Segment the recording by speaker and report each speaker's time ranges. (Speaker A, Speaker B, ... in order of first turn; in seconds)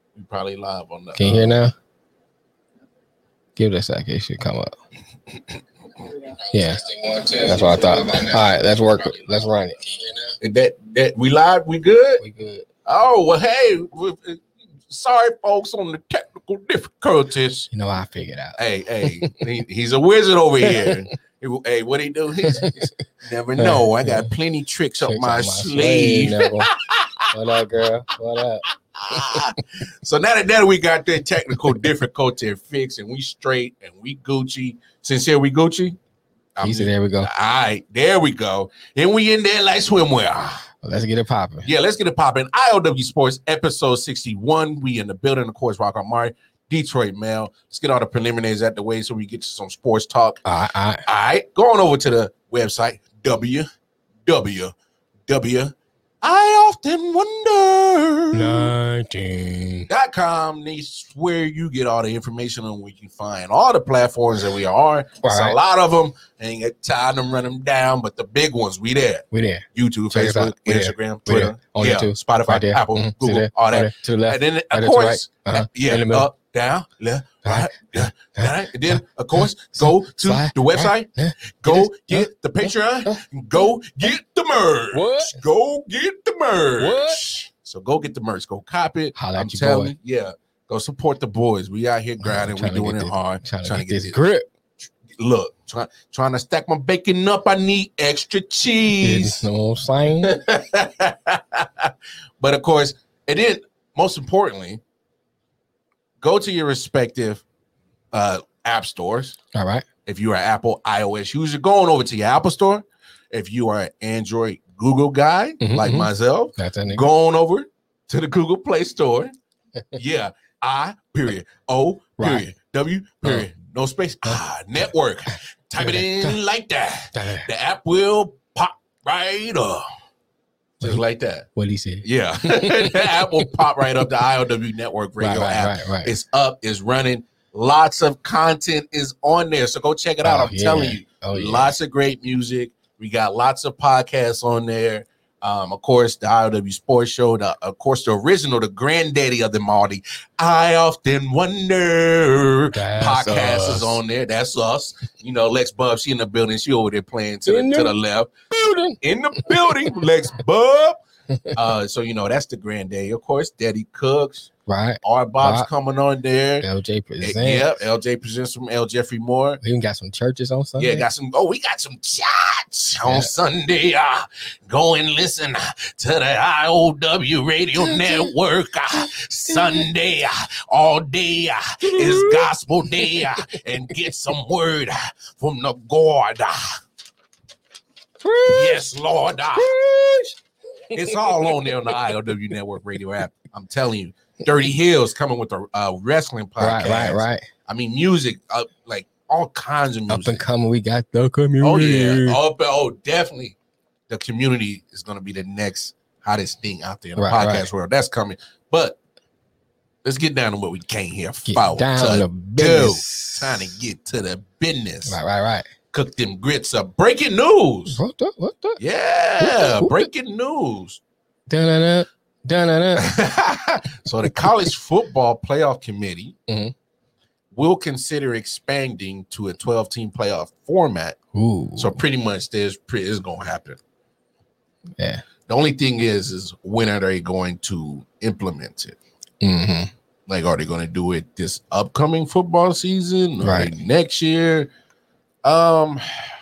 Speaker A: 0.1-1.6, 10.4-12.2, 12.9-17.7, 18.6-27.3, 28.7-36.0, 36.6-40.7, 41.6-50.4, 51.0-53.7, 54.2-54.7, 55.3-58.7, 59.9-94.2, 95.1-99.5, 100.2-104.8, 106.2-107.4, 108.1-109.4, 110.1-119.3, 119.9-129.8, 130.8-131.5, 132.0-158.3, 159.0-161.0, 161.5-164.5, 165.0-166.7, 167.2-169.6, 170.8-186.8, 188.5-189.7, 190.9-200.4, 201.6-203.6, 204.1-209.0, 210.0-215.2, 215.9-218.0, 218.8-221.0, 223.0-226.3, 227.5-231.2, 231.8-233.8, 235.5-239.0, 240.3-244.7, 245.4-246.0
Speaker B: 1.2-1.7, 3.6-4.8, 6.5-10.3, 12.2-12.7, 17.7-19.4, 20.6-21.0, 22.4-22.9, 23.6-24.3, 25.0-26.7, 27.3-29.4, 36.6-37.3, 40.8-41.7, 50.5-51.0, 58.3-59.9, 65.2-65.6, 69.3-76.3, 77.5-79.0, 79.8-83.2, 84.9-85.4, 86.8-87.2, 89.2-89.9, 92.2-94.5, 99.0-100.4, 109.5-109.8, 115.6-117.0, 122.2-122.5, 125.8-126.3, 127.1-127.5, 131.6-133.5, 135.2-136.1, 140.2-141.7, 152.7-154.0, 157.5-157.9, 158.5-159.7, 164.7-165.7, 166.6-167.8, 169.6-171.0, 181.9-182.5, 188.2-188.9, 189.6-190.4, 190.9-191.7, 196.6-197.5, 200.1-202.4, 207.2-207.7, 211.5-213.8, 215.1-215.7, 217.9-218.8, 219.4-220.1, 221.5-223.2, 226.5-226.7, 231.3-232.0, 239.4-239.9, 243.4-243.7